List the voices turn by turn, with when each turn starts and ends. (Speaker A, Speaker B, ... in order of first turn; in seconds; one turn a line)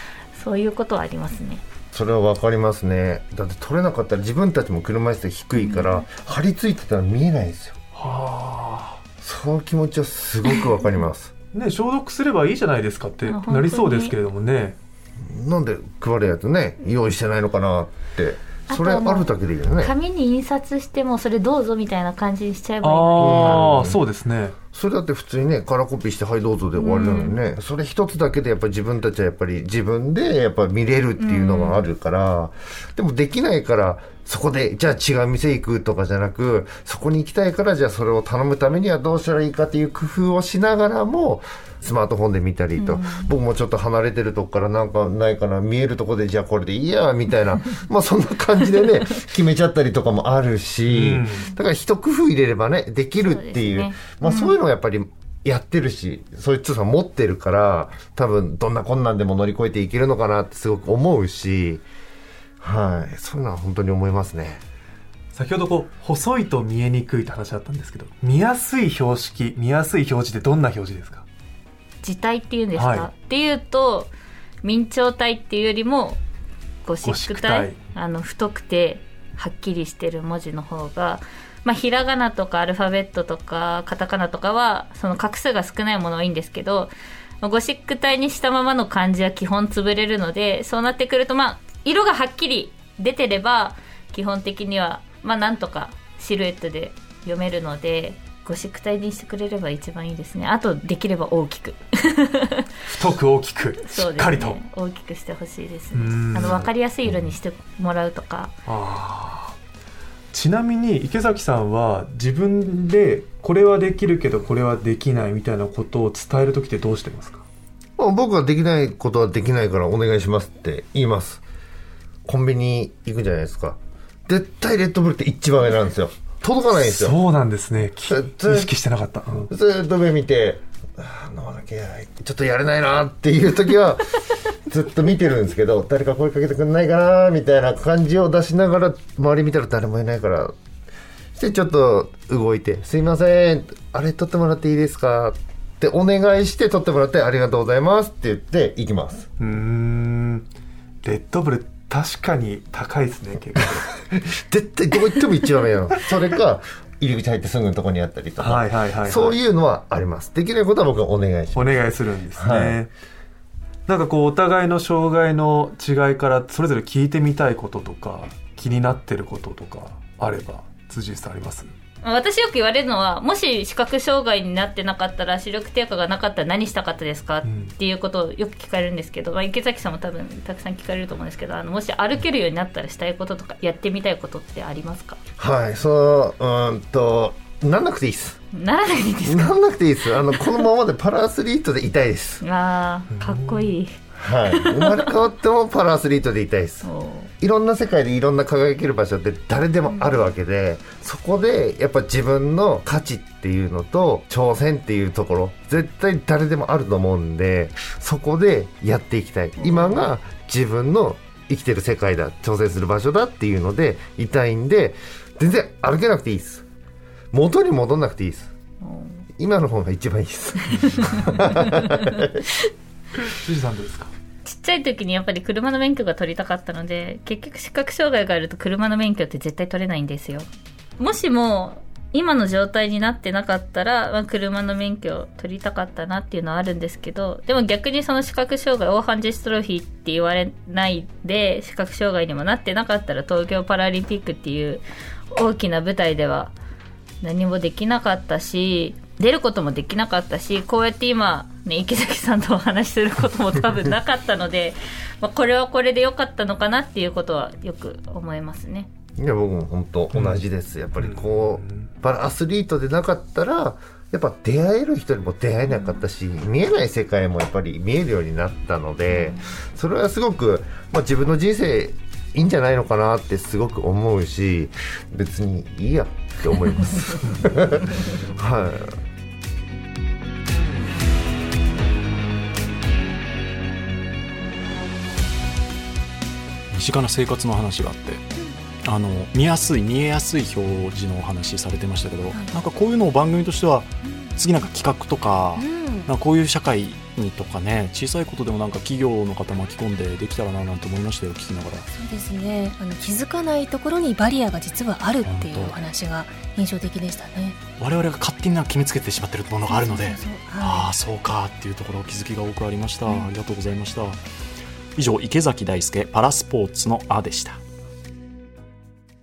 Speaker A: 0.3-1.6
Speaker B: 1.9-7.7
Speaker A: 5.6-6.0
Speaker C: 7.9-9.0
Speaker B: 9.2-11.3
Speaker C: 11.5-14.8
Speaker A: 13.2-14.1
Speaker B: 15.2-19.9
Speaker A: 18.7-23.7
Speaker C: 22.8-24.6
Speaker B: 23.2-24.0
Speaker B: 24.7-61.8
Speaker A: 26.8-27.4
Speaker A: 31.2-31.8
Speaker A: 42.8-43.3
Speaker C: 50.9-51.5
Speaker A: 53.2-54.5
Speaker B: 62.6-64.6
Speaker C: 65.3-71.2
Speaker A: 72.0-74.1
Speaker C: 72.7-73.1
Speaker A: 74.6-76.2
Speaker A: 76.8-102.7
Speaker C: 77.0-77.8
Speaker C: 102.9-104.6
Speaker A: 103.9-108.5
Speaker C: 105.9-106.7
Speaker C: 108.7-109.5
Speaker C: 110.3-117.4
Speaker B: 118.0-121.4
Speaker B: 122.2-127.2
Speaker C: 126.7-129.5
Speaker B: 128.1-128.7
Speaker B: 129.5-140.5
Speaker B: 141.3-149.3
Speaker C: 149.4-150.5
Speaker C: 151.0-153.9
Speaker B: 154.1-162.8
Speaker C: 158.4-159.4
Speaker C: 161.5-162.9
Speaker C: 163.9-171.7
Speaker A: 172.0-185.2
Speaker C: 177.4-177.7
Speaker B: 185.4-188.4
Speaker A: 188.5-189.6
Speaker B: 189.2-192.4
Speaker A: 192.4-193.9
Speaker C: 193.1-193.7
Speaker B: 194.1-216.6
Speaker A: 194.5-195.0
Speaker A: 196.8-197.3
Speaker A: 199.8-200.2
Speaker A: 209.6-210.0
Speaker B: 217.3-218.5
Speaker A: 218.8-219.2
Speaker B: 219.4-222.3
Speaker A: 220.7-222.2
Speaker C: 223.3-224.1
Speaker A: 224.4-230.5
Speaker A: 231.0-246.5
Speaker A: 247.2-258.9
Speaker B: 259.2-278.9
Speaker C: 260.1-260.4
Speaker C: 261.0-261.9
Speaker D: 286.7-288.2
Speaker D: 288.8-301.9
Speaker E: 295.6-296.1
Speaker E: 301.9-307.6
Speaker D: 305.2-305.8
Speaker D: 307.8-314.2
Speaker E: 309.7-310.9
Speaker D: 314.9-317.6